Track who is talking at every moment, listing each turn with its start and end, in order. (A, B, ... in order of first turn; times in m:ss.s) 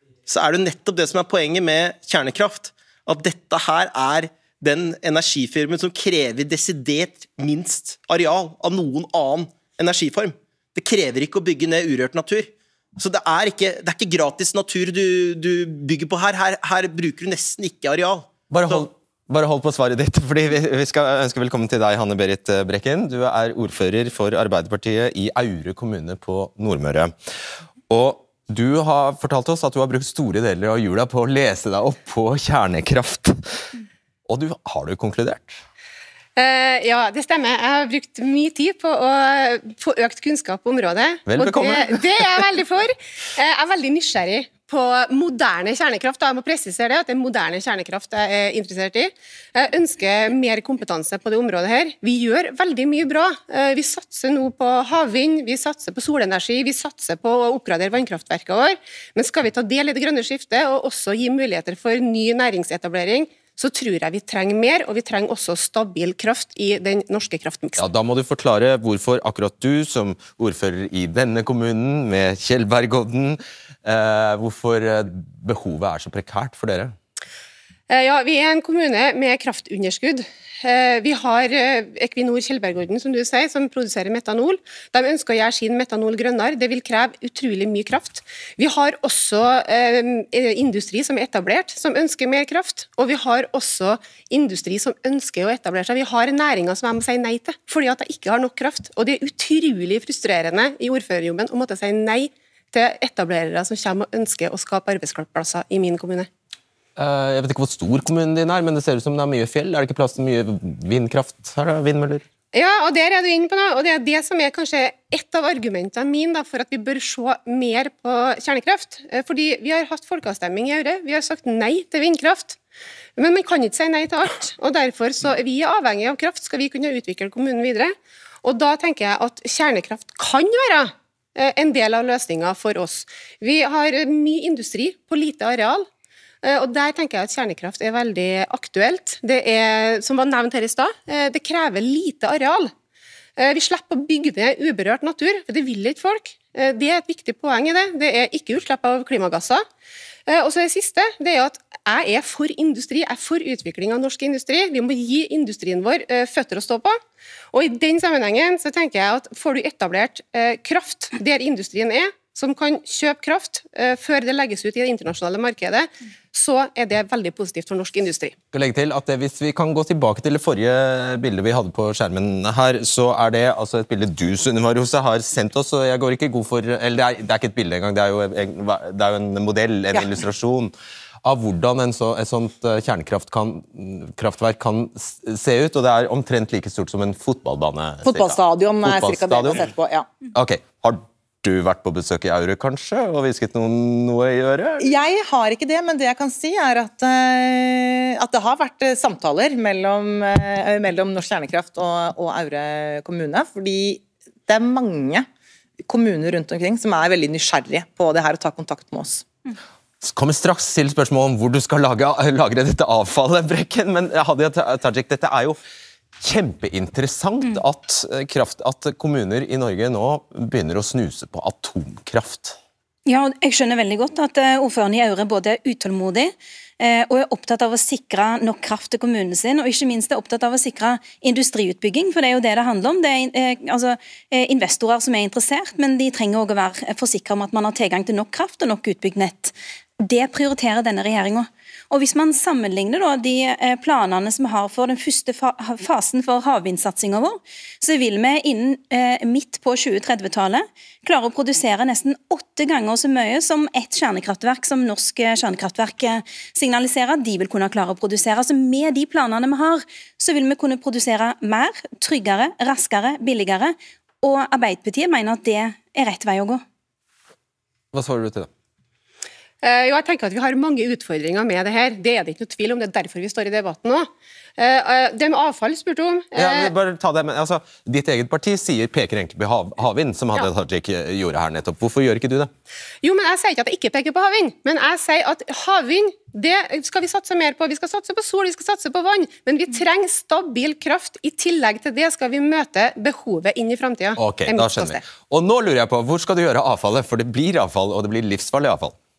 0:00.3-0:18.9 A
0:18.5-0:27.1 B
0:27.9-0:33.7 B
0:34.3-0:35.6 B
0:36.4-1:07.9 C
0:41.3-0:42.4 B
1:07.8-1:17.0 B
1:17.9-1:46.3 C
1:47.0-1:52.2 B
1:52.5-2:02.6 C
2:03.2-2:15.9 C
2:16.4-2:22.7 C
2:23.4-2:29.6 C
2:30.3-2:37.0 C
2:37.5-2:48.4 C
2:48.5-3:09.7 B
3:08.0-3:10.1 D
3:10.3-3:14.9 B
3:14.8-3:25.3 D
3:25.9-3:29.2 D
3:30.0-3:35.6 B
3:36.2-3:42.6 B
3:43.1-4:26.6 E
4:27.9-4:28.5 B
4:29.6-4:36.7 C
4:36.4-4:42.5 B
4:43.0-4:54.9 C
4:54.2-4:59.0 B